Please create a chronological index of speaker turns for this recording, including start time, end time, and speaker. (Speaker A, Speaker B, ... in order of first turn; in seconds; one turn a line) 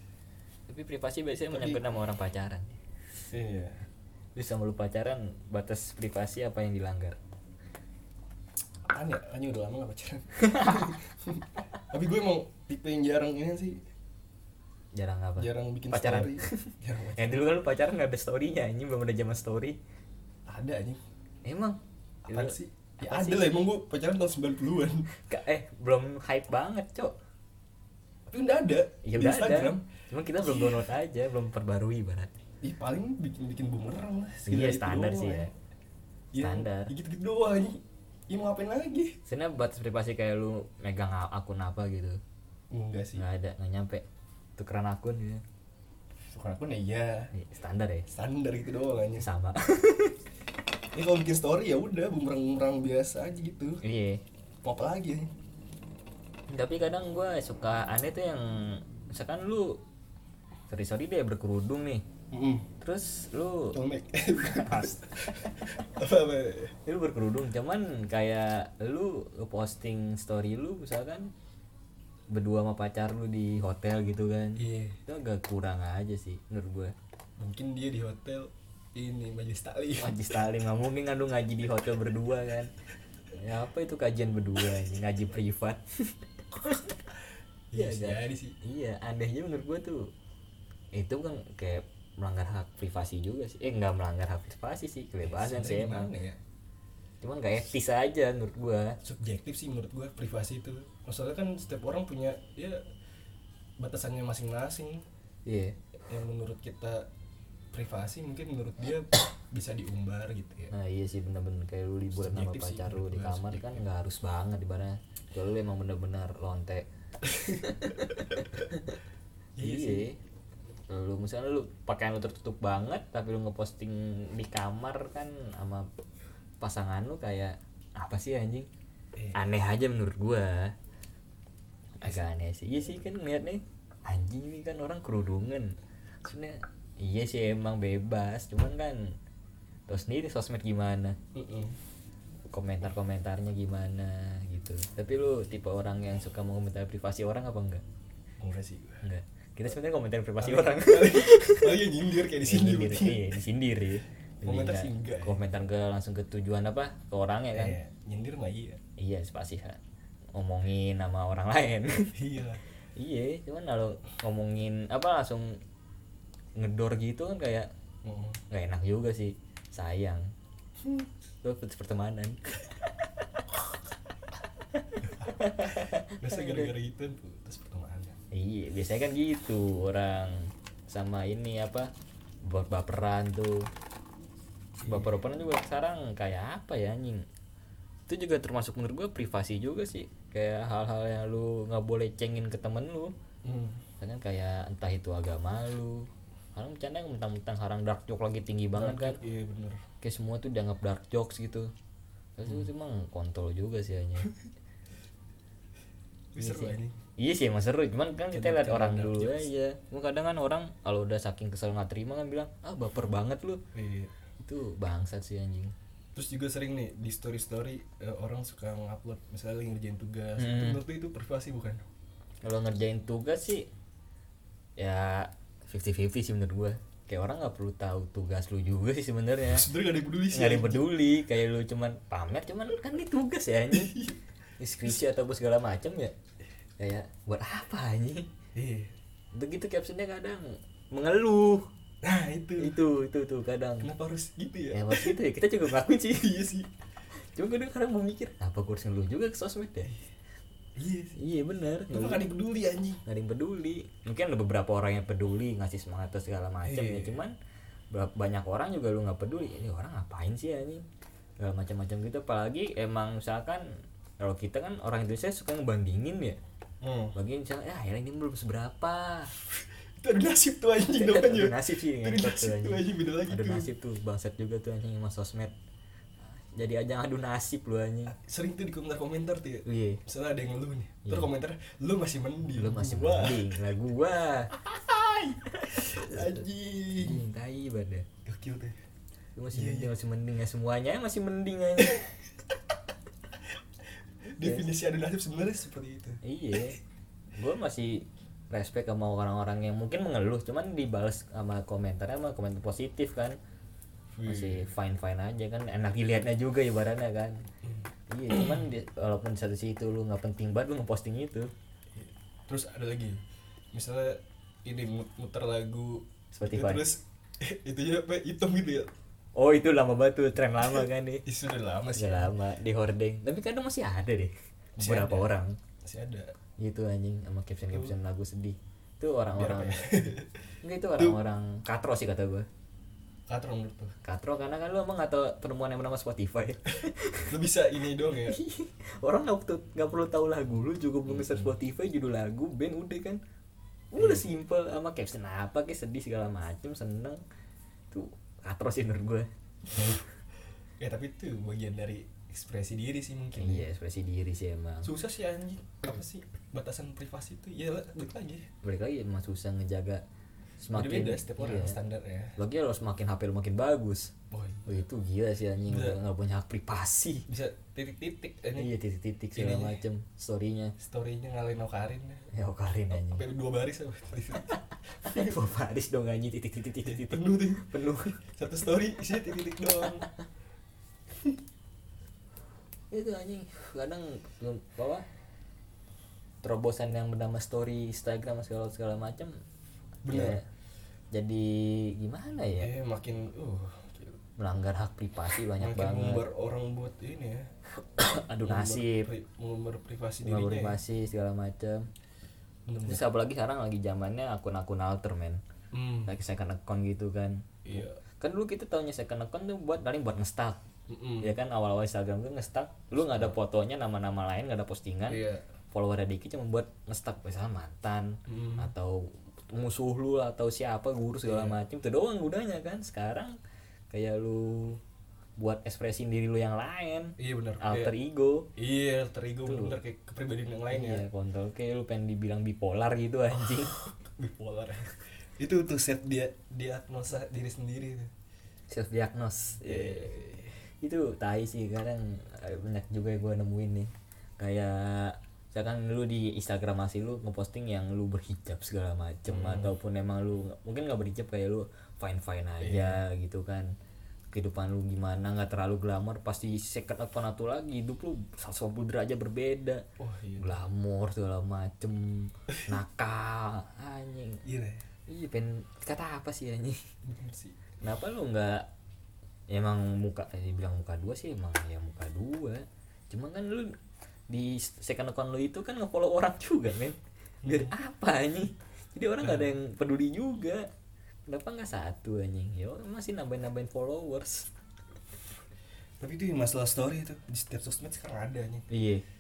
Speaker A: 0.7-2.8
Speaker B: 1.5-1.8
Speaker B: 3.3-3.9
Speaker A: 4.3-7.2
Speaker B: 8.8-13.8
Speaker A: 10.4-10.8
Speaker A: 14.9-19.8
Speaker B: 15.4-17.5
Speaker B: 20.5-21.0
Speaker A: 21.4-23.7
Speaker B: 22.2-25.1
Speaker A: 25.1-27.1
Speaker B: 28.3-30.9
Speaker A: 29.0-32.3
Speaker B: 32.6-35.5
Speaker A: 34.5-35.5
Speaker B: 36.3-39.2
Speaker A: 36.4-36.9
Speaker A: 39.2-42.2
Speaker B: 42.7-43.2
Speaker A: 43.1-44.0
Speaker A: 44.6-45.4
Speaker B: 46.3-47.3
Speaker A: 47.3-48.1
Speaker B: 48.1-49.3
Speaker A: 49.1-50.2
Speaker B: 50.9-53.8
Speaker A: 53.8-54.2
Speaker B: 54.6-55.3
Speaker A: 56.5-59.8
Speaker A: 60.7-62.0
Speaker B: 62.3-62.7
Speaker A: 62.8-63.8
Speaker B: 63.7-66.7
Speaker A: 64.3-65.5
Speaker A: 66.8-71.3
Speaker A: 72.3-76.9
Speaker B: 74.6-75.0
Speaker B: 77.4-80.3
Speaker A: 79.9-82.7
Speaker A: 83.3-87.0
Speaker B: 87.7-88.5
Speaker A: 87.7-90.1
Speaker A: 90.9-96.1
Speaker B: 95.2-96.4
Speaker A: 97.2-99.0
Speaker B: 99.0-102.8
Speaker B: 103.8-105.0
Speaker A: 105.5-105.8
Speaker B: 106.1-107.1
Speaker B: 107.7-110.7
Speaker A: 110.7-116.9
Speaker B: 112.1-113.8
Speaker B: 117.2-117.6
Speaker A: 117.4-119.0
Speaker B: 119.6-120.1
Speaker A: 119.6-120.2
Speaker A: 120.9-125.8
Speaker A: 126.6-128.7
Speaker B: 129.2-129.4
Speaker A: 129.3-130.7
Speaker A: 132.0-139.2
Speaker A: 139.9-141.2
Speaker B: 141.3-141.8
Speaker A: 142.5-147.8
Speaker B: 148.4-149.0
Speaker A: 149.0-151.8
Speaker B: 150.4-153.4
Speaker A: 152.4-157.8
Speaker B: 154.4-155.4
Speaker B: 157.5-158.8
Speaker A: 159.0-159.8
Speaker A: 160.3-162.1
Speaker B: 162.1-162.6
Speaker A: 162.9-165.5
Speaker A: 166.6-167.7
Speaker B: 168.0-168.4
Speaker A: 168.5-170.2
Speaker A: 171.4-172.4
Speaker A: 174.7-176.7
Speaker B: 175.1-178.2
Speaker A: 178.3-181.9
Speaker A: 182.4-183.7
Speaker B: 184.8-185.1
Speaker A: 184.8-187.2
Speaker A: 188.1-193.1
Speaker B: 193.4-193.8
Speaker A: 194.0-199.2
Speaker B: 198.7-199.8
Speaker A: 200.0-201.7
Speaker A: 202.4-204.3
Speaker B: 206.3-206.9
Speaker A: 206.4-213.6
Speaker B: 208.3-209.5
Speaker B: 213.7-214.1
Speaker A: 214.4-215.7
Speaker B: 216.1-221.8
Speaker A: 220.3-220.8
Speaker A: 222.4-223.7
Speaker A: 224.8-229.7
Speaker B: 229.5-230.9
Speaker A: 230.3-234.0
Speaker B: 233.7-234.2
Speaker A: 234.6-236.1
Speaker A: 236.8-238.3
Speaker B: 238.5-238.9
Speaker A: 239.3-241.7
Speaker B: 242.0-242.8
Speaker A: 242.6-243.9
Speaker B: 243.8-246.7
Speaker A: 244.7-246.4
Speaker A: 247.3-249.9
Speaker B: 250.8-251.2
Speaker A: 251.2-252.3
Speaker B: 251.9-253.0
Speaker A: 253.0-257.3
Speaker B: 256.6-257.2
Speaker A: 257.9-260.8
Speaker A: 261.4-263.6
Speaker A: 264.2-266.4
Speaker B: 266.8-267.1
Speaker A: 267.1-269.3
Speaker B: 269.5-273.7
Speaker A: 270.9-275.5
Speaker A: 276.2-278.2
Speaker B: 278.1-283.6
Speaker A: 279.6-280.0
Speaker A: 281.0-281.3
Speaker A: 282.5-284.7
Speaker B: 284.7-287.2
Speaker A: 285.4-288.1
Speaker B: 288.2-288.8
Speaker A: 289.4-292.1
Speaker B: 289.5-290.0
Speaker B: 294.4-296.8
Speaker A: 294.4-294.7
Speaker A: 296.2-296.8
Speaker A: 297.4-303.4
Speaker B: 304.1-304.7
Speaker A: 304.2-307.3
Speaker A: 308.1-311.5
Speaker B: 308.3-308.7
Speaker B: 312.0-313.2
Speaker B: 313.7-318.9
Speaker A: 316.3-316.9
Speaker A: 319.4-321.2
Speaker B: 320.6-322.4
Speaker A: 321.9-325.6
Speaker B: 324.8-326.3
Speaker A: 326.6-329.9
Speaker B: 327.7-328.0
Speaker B: 329.3-330.3
Speaker A: 330.6-332.4
Speaker B: 330.9-331.2
Speaker B: 333.3-333.9
Speaker A: 334.0-337.3
Speaker B: 336.7-338.4
Speaker A: 338.2-343.2
Speaker B: 341.1-341.5
Speaker A: 343.9-347.2
Speaker A: 347.9-350.0
Speaker B: 350.8-353.7
Speaker A: 353.3-354.9
Speaker B: 354.8-358.5
Speaker A: 358.6-360.0
Speaker A: 360.6-361.8
Speaker B: 360.7-362.4
Speaker A: 362.4-364.1
Speaker B: 364.3-364.9
Speaker A: 364.6-367.3
Speaker B: 365.7-366.0
Speaker B: 367.3-368.8
Speaker A: 368.5-370.8
Speaker B: 369.3-369.8
Speaker B: 370.8-372.3
Speaker A: 372.3-373.2
Speaker B: 372.9-375.4
Speaker A: 374.3-378.3
Speaker B: 376.8-377.7
Speaker B: 378.3-380.1
Speaker A: 382.9-385.0
Speaker A: 386.4-389.3
Speaker B: 390.0-390.4
Speaker A: 390.1-390.4
Speaker A: 391.1-392.8
Speaker B: 392.6-394.2
Speaker A: 394.4-396.3
Speaker B: 395.5-397.5
Speaker A: 397.8-399.1
Speaker B: 398.4-400.8
Speaker A: 400.2-401.9
Speaker B: 402.7-403.1
Speaker A: 402.8-405.4
Speaker B: 405.7-406.1
Speaker A: 406.1-410.6
Speaker B: 407.6-408.0
Speaker B: 410.9-411.4
Speaker A: 411.2-423.4
Speaker B: 415.1-415.5
Speaker B: 418.3-418.7
Speaker B: 421.2-421.6
Speaker A: 423.9-424.8
Speaker A: 425.4-428.5
Speaker B: 427.2-427.9
Speaker B: 428.5-431.1
Speaker A: 429.4-429.8
Speaker A: 430.7-433.9
Speaker B: 434.0-438.1
Speaker A: 438.7-453.6
Speaker B: 439.6-440.5
Speaker B: 449.3-449.7
Speaker B: 452.6-453.0
Speaker A: 454.3-459.8
Speaker B: 460.0-460.6
Speaker A: 460.4-464.4
Speaker B: 464.4-464.9
Speaker A: 465.1-466.8
Speaker B: 467.0-467.7
Speaker A: 467.8-468.7
Speaker A: 469.5-473.7
Speaker A: 474.3-480.7
Speaker B: 477.4-477.8
Speaker B: 479.2-479.5
Speaker A: 481.3-484.5
Speaker B: 486.0-488.7
Speaker A: 488.7-489.0